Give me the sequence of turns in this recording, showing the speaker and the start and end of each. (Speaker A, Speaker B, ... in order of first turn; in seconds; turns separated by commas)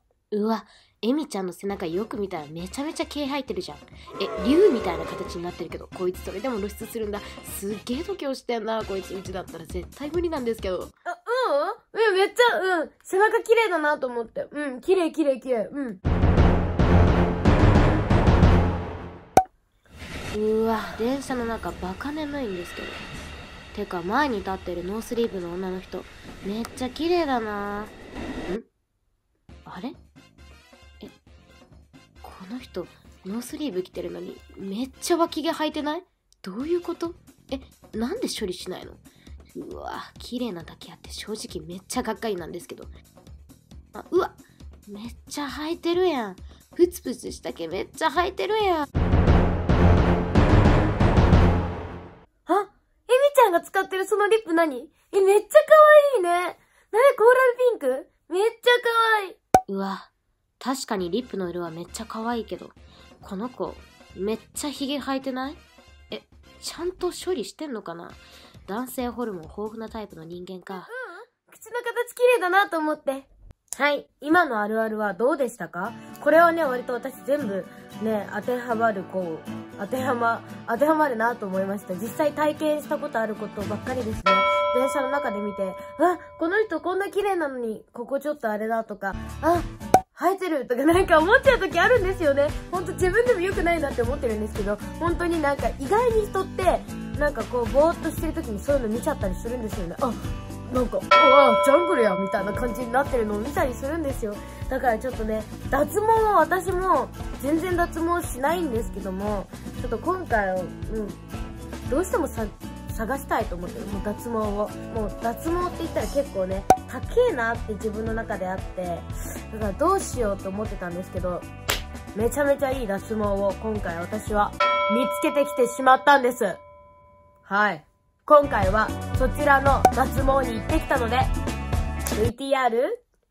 Speaker A: 0.3-10.9, Speaker B: 11.1-16.0, Speaker A: 20.3-23.1, Speaker A: 23.7-27.9, Speaker A: 29.7-30.0, Speaker A: 32.2-39.0, Speaker A: 39.5-42.9, Speaker A: 44.0-48.8, Speaker B: 52.5-59.4, Speaker A: 59.7-60.1, Speaker A: 60.6-65.6, Speaker A: 66.1-70.9, Speaker B: 70.7-100.1, Speaker B: 100.7-111.2, Speaker B: 111.9-121.5, Speaker B: 122.1-126.6, Speaker B: 127.5-131.3, Speaker B: 132.1-133.0